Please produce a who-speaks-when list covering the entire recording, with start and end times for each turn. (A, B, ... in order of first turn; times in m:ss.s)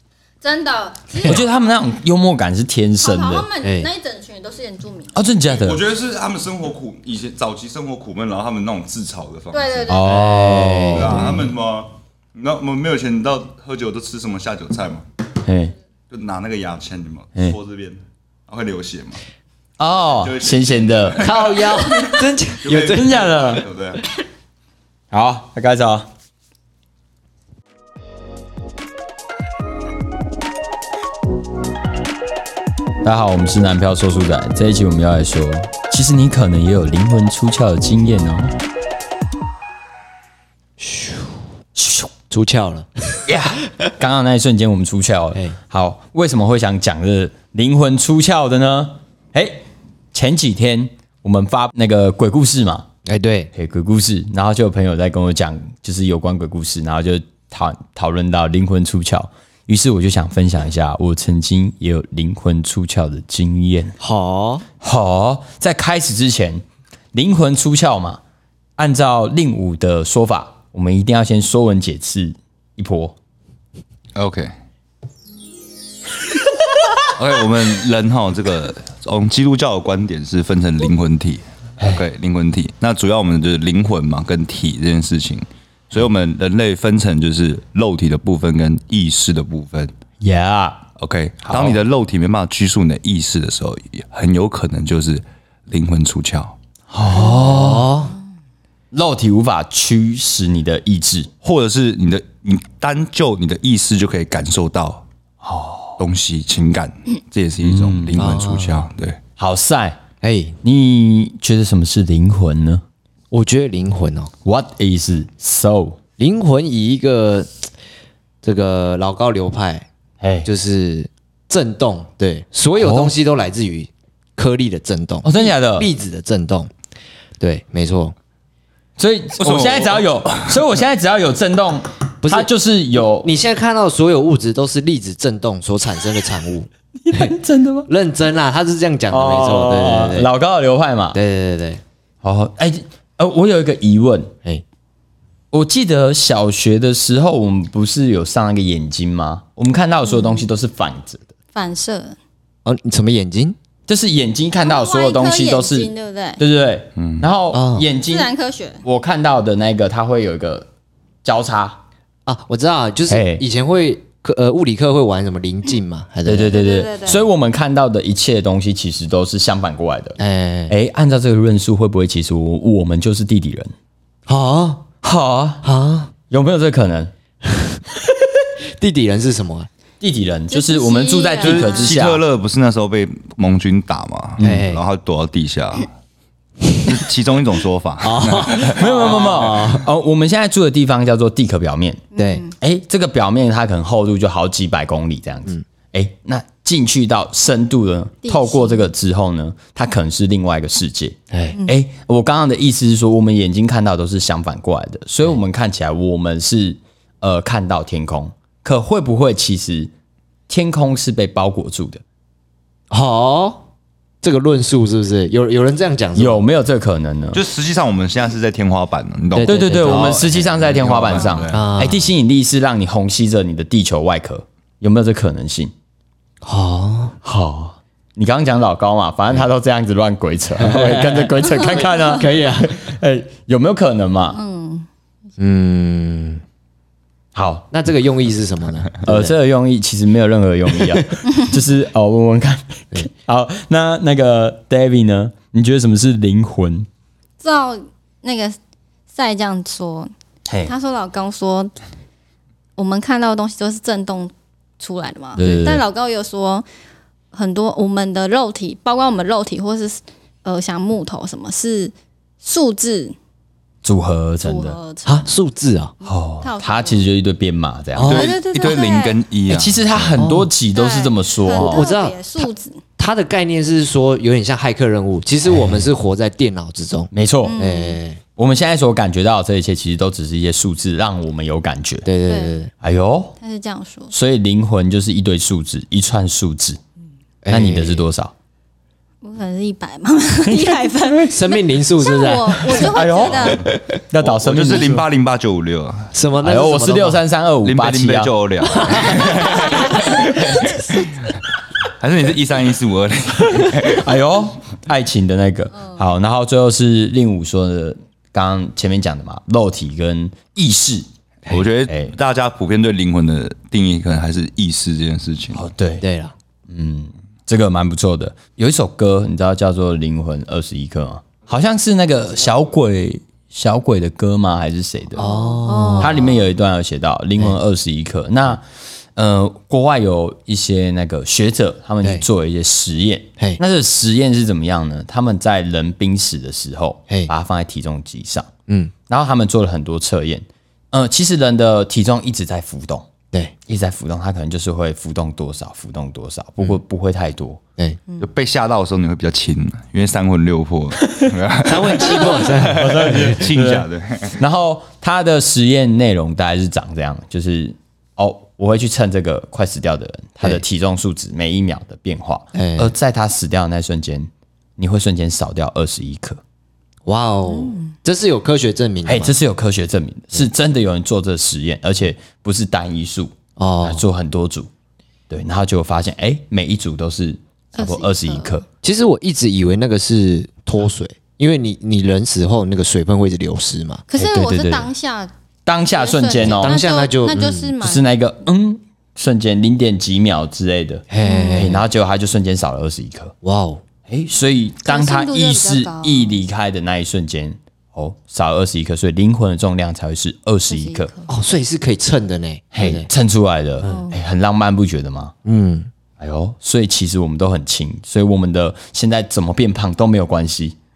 0:00.4-0:01.5 A
0:01.2-0:03.5 B
0:03.0-0:05.2 A
0:03.6-0:03.9 C
0:05.1-0:05.8 B
0:05.5-0:10.0 D
0:09.5-0:10.3 A
0:09.9-0:11.5 B
0:10.0-0:11.2 C
0:10.9-0:15.0 D
0:15.4-0:15.7 B
0:16.1-0:19.2 D
0:19.8-0:21.3 B
0:20.2-0:24.0 D
0:21.2-0:23.1 C
0:22.9-0:23.6 B
0:25.1-0:26.1 B
0:33.0-0:38.5 B
0:40.8-0:41.3 C
0:41.7-0:42.1 B
0:42.3-0:43.2 C
0:43.2-0:52.8 B
0:53.0-0:53.5 C
0:53.5-1:03.9 B
1:04.0-1:04.6 C
1:04.8-1:08.2 B
1:08.8-1:13.1 B
1:14.1-1:14.5 D
1:17.0-1:29.9 D
1:30.2-1:30.8 B
1:31.0-1:36.6 D
1:31.4-1:31.8 B
1:36.9-1:37.9 B
1:37.1-1:38.1 C
1:38.9-1:41.3 B
1:41.4-1:45.0 D
1:45.4-1:46.0 B
1:46.0-1:49.2 D
1:47.6-1:48.3 B
1:48.2-1:48.9 C
1:49.4-1:50.0 B
1:50.2-1:50.6 C
1:50.6-1:52.8 B
1:53.3-1:54.3 C
1:54.4-1:56.0 B
1:56.2-1:57.7 C
1:58.4-1:59.9 C
2:00.2-2:00.5 B
2:00.4-2:06.7 C
2:02.8-2:03.1 B
2:05.2-2:05.9 B
2:07.4-2:08.1 C
2:09.0-2:13.3 B
2:09.4-2:10.5 D
2:12.2-2:12.5 C
2:13.2-2:17.3 C
2:17.0-2:17.9 B
2:17.9-2:20.3 C
2:19.1-2:21.2 B
2:21.1-2:21.8 C
2:22.2-2:24.3 B
2:25.5-2:31.2 B
2:30.1-2:30.4 A
2:31.5-2:32.2 A
2:32.6-2:33.6 C
2:33.9-2:38.3 B
2:34.6-2:36.4 A
2:37.0-2:37.2 D
2:37.5-2:37.8 C
2:38.0-2:38.8 A
2:38.8-2:40.7 B
2:41.2-2:41.8 B
2:42.2-2:46.6 C
2:43.1-2:43.4 B
2:46.2-2:50.2 B
2:46.5-2:47.2 A
2:50.2-2:50.7 C
2:50.7-2:53.7 B
2:54.3-2:54.8 C
2:55.0-2:55.6 B
2:55.6-2:56.1 C
2:56.3-2:57.1 B
2:58.8-2:59.7 C
3:00.0-3:02.2 B
3:00.5-3:02.0 A
3:01.4-3:05.9 D
3:04.4-3:04.8 C
3:06.8-3:08.8 D
3:08.0-3:09.9 C
3:08.6-3:12.0 B
3:12.1-3:12.5 A
3:12.1-3:12.4 C
3:12.6-3:29.9 B
3:18.2-3:18.9 A
3:21.3-3:21.6 C
3:30.5-3:32.0 B
3:32.9-3:33.6 C
3:34.2-3:36.4 C
3:36.2-3:37.4 B
3:37.3-3:41.7 D
3:39.3-3:40.2 C
3:39.4-3:45.7 B
3:41.2-3:41.4 A
3:41.5-3:42.1 C
3:46.4-3:47.2 C
3:47.2-3:54.4 B
3:50.6-3:52.8 C
3:54.3-3:54.9 A
3:55.4-3:56.4 C
3:57.3-3:57.7 B
3:57.7-3:59.3 C
3:59.0-4:06.9 B
4:07.4-4:08.6 A
4:09.1-4:10.1 A
4:10.5-4:10.7 B
4:10.6-4:11.7 A
4:12.8-4:16.6 A
4:15.4-4:15.8 C
4:15.4-4:15.8 B
4:17.3-4:23.2 A
4:23.8-4:24.8 B
4:24.4-4:25.3 A
4:25.0-4:25.9 C
4:26.0-4:27.0 A
4:26.0-4:28.3 B
4:27.9-4:28.3 C
4:28.1-4:30.2 D
4:28.1-4:29.2 A
4:29.5-4:31.8 B
4:30.2-4:30.5 C
4:30.7-4:32.8 A
4:31.5-4:32.4 C
4:33.0-4:38.2 C
4:37.1-4:37.6 B
4:37.4-4:38.0 A
4:38.4-4:42.1 B
4:42.0-4:42.7 C
4:42.3-4:42.5 A
4:42.8-4:43.4 B
4:43.4-4:44.1 A
4:44.1-4:46.8 B
4:47.4-4:48.0 C
4:47.5-4:48.3 B
4:49.2-4:53.7 A
4:50.4-4:51.3 B
4:51.3-4:53.8 C
4:52.7-4:55.1 B
4:54.2-4:56.1 D
4:56.1-4:57.2 C
4:56.4-4:58.3 B
4:57.6-5:01.3 D
4:58.9-5:00.6 A
4:59.0-5:00.2 B
5:01.8-5:04.1 D
5:03.6-5:11.1 B
5:11.5-5:15.6 D
5:11.9-5:12.1 B
5:15.5-5:16.0 B
5:16.0-5:16.3 C
5:16.7-5:25.3 B
5:25.2-5:26.4 A
5:25.2-5:26.2 C
5:26.0-5:28.6 B
5:29.2-5:38.5 B
5:38.7-5:38.9 C
5:39.1-5:43.1 B
5:43.7-5:47.6 B
5:48.2-5:54.4 D
5:51.6-5:53.4 C
5:52.1-6:06.4 B
6:02.5-6:02.9 C
6:07.0-6:09.3 C
6:07.5-6:07.9 A
6:09.0-6:14.7 B
6:13.6-6:14.0 C
6:15.3-6:18.6 B
6:17.8-6:18.6 A
6:18.8-6:24.1 C
6:24.1-6:25.3 A
6:24.1-6:24.9 B
6:25.6-6:26.8 B
6:25.9-6:28.0 A
6:26.4-6:27.7 C
6:27.8-6:33.3 B
6:31.1-6:31.8 C
6:31.2-6:31.7 A
6:33.4-6:33.8 C
6:34.1-6:41.1 B
6:34.8-6:36.4 A
6:40.7-6:41.3 A
6:41.3-6:43.1 C
6:42.7-6:45.3 B
6:43.8-6:44.2 A
6:45.4-6:45.9 C
6:46.2-6:50.7 B